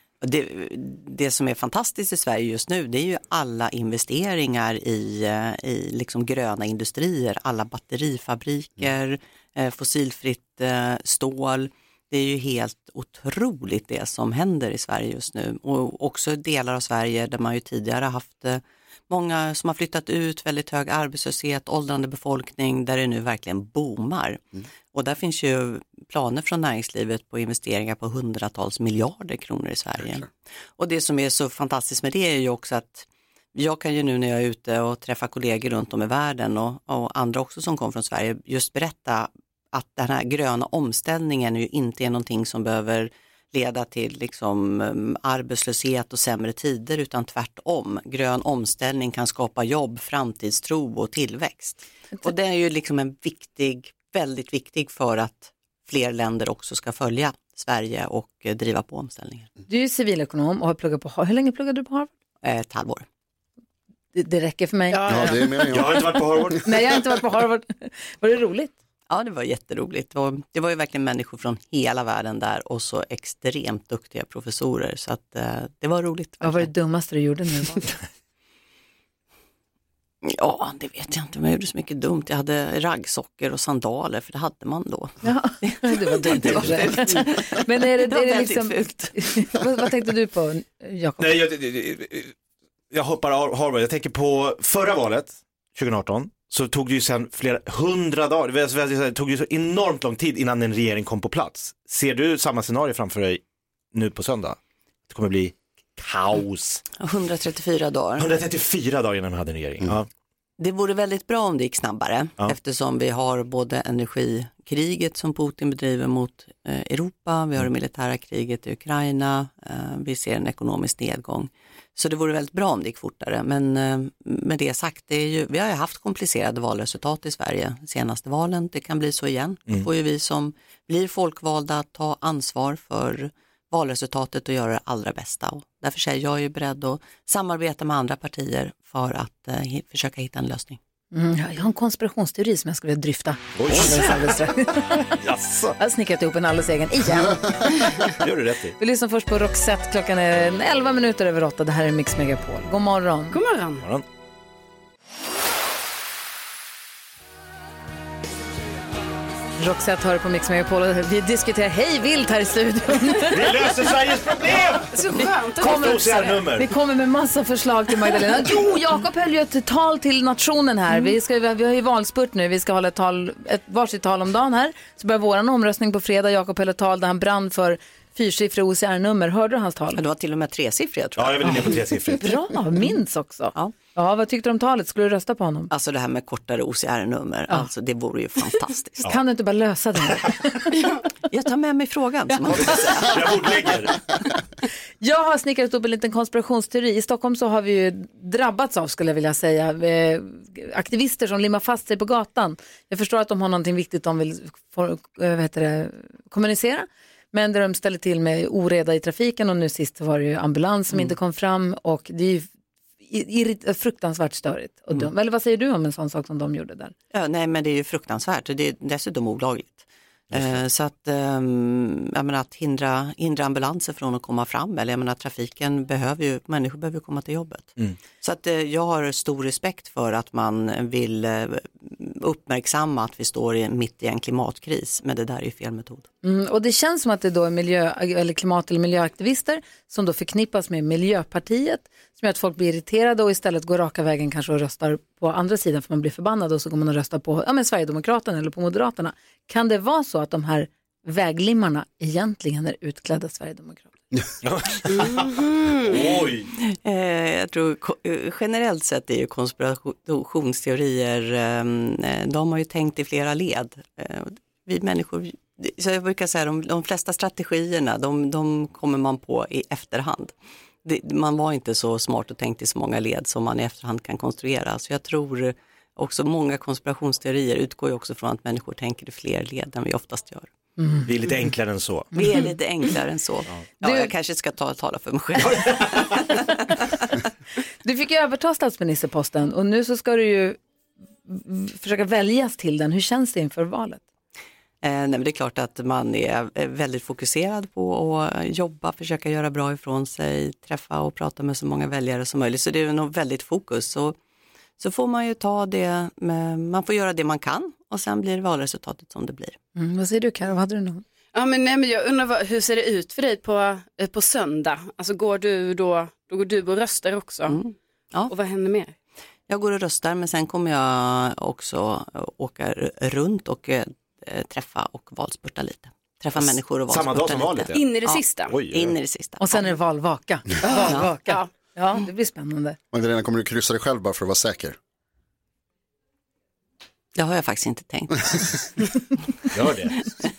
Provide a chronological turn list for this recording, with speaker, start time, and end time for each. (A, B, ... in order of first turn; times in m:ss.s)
0:00.2-0:59.5 A
0:59.7-1:02.1 B
1:02.4-1:03.0 A
1:04.1-1:05.4 B
1:05.1-1:06.4 C
1:05.6-1:06.7 D
1:06.6-1:08.7 B
1:09.1-1:16.7 A
1:16.4-1:17.9 B
1:20.2-1:29.3 A
1:25.2-1:31.3 B
1:31.2-1:32.3 D
1:32.9-1:43.4 D
1:43.9-1:44.6 D
1:45.1-1:46.8 D
1:47.0-1:48.3 A
1:48.2-1:50.1 D
1:50.6-2:20.8 A
2:21.1-2:25.2 B
2:23.5-2:24.4 D
2:25.1-2:25.8 D
2:25.8-2:28.1 B
2:28.1-2:28.7 D
2:28.8-2:33.4 B
2:33.3-2:33.8 E
2:39.6-2:43.6 B
2:43.3-2:44.9 D
2:44.9-2:46.4 E
2:45.6-2:46.7 D
2:45.6-3:00.0 B
2:59.9-3:01.7 A
3:01.2-3:02.4 D
3:01.4-3:05.7 B
3:05.7-3:09.1 A
3:09.0-3:10.7 B
3:11.3-3:13.6 A
3:12.6-3:14.1 D
3:15.0-3:32.5 B
3:33.0-3:36.9 B
3:37.1-3:56.1 A
3:40.3-3:40.6 D
3:56.2-4:14.0 B
4:14.4-4:16.5 D
4:14.9-4:16.1 E
4:16.5-4:30.3 A
4:30.8-4:40.5 A
4:40.8-4:41.1 B
4:41.0-4:42.2 D
4:42.1-4:42.4 B
4:42.1-4:46.6 A
4:43.8-4:44.1 B
4:45.5-4:46.2 D
4:47.8-4:50.6 B
4:51.3-4:54.0 B
4:54.8-5:04.2 A
5:04.8-5:09.6 A
5:09.8-5:11.0 B
5:11.3-5:17.6 E
5:17.5-5:18.3 A
5:18.3-5:18.9 E
5:19.5-5:29.6 A
5:26.4-5:27.9 D
5:27.7-5:28.6 E
5:28.5-5:28.9 D
5:29.4-5:32.8 B
5:30.6-5:31.5 E
5:30.7-5:31.1 A
5:32.9-5:34.8 C
5:37.2-5:38.6 A
5:39.5-5:40.1 D